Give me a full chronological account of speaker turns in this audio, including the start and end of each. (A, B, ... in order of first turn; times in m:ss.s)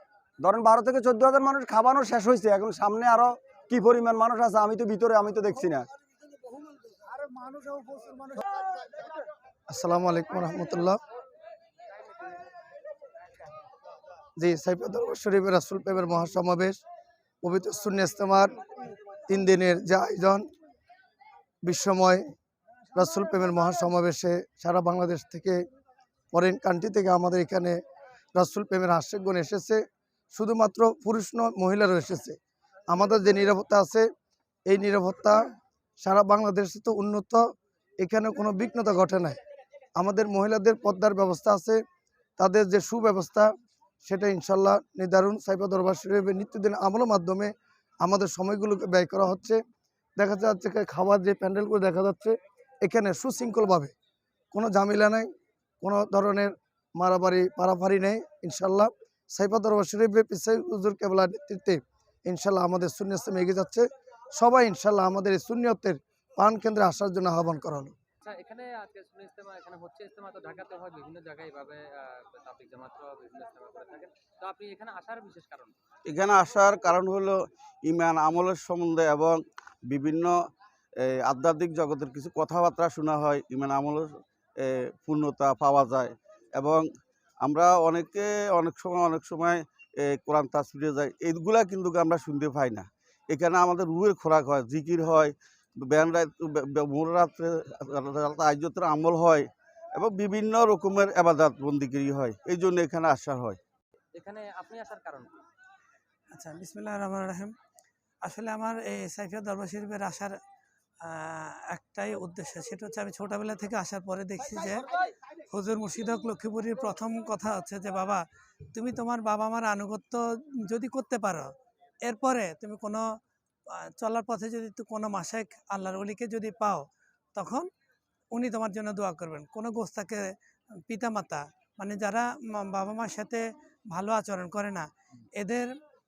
0:00.4-0:05.8 A
0:09.7-0:11.0 B
0:14.4-0:16.8 B
0:17.4-0:18.6 B
0:19.3-0:20.4 B
0:21.6-0:22.2 B
0:22.9-0:25.6 B
0:26.3-0:27.8 B
0:28.3-0:32.4 B
0:32.9-0:34.1 B
0:34.7-0:35.4 B
0:36.0-0:37.4 B
0:38.0-0:39.4 B
0:40.0-0:41.8 B
0:42.4-0:43.5 B
0:44.0-0:47.5 B
0:48.0-0:49.6 B
0:50.2-0:53.9 B
0:54.5-0:55.3 B
0:55.8-1:07.9 B
1:08.2-1:11.8 C
1:12.4-1:15.7 C
1:16.1-1:20.4 D
1:21.0-1:26.9 D
1:27.4-1:43.6 D
1:44.2-1:45.4 C
1:46.3-1:47.5 E
1:48.2-1:50.3 E
1:51.0-1:54.8 E
1:55.5-1:58.2 E
1:58.7-2:01.5 E
2:02.0-2:03.0 E
2:03.7-2:07.7 E
2:08.3-2:10.3 E
2:10.9-2:15.7 E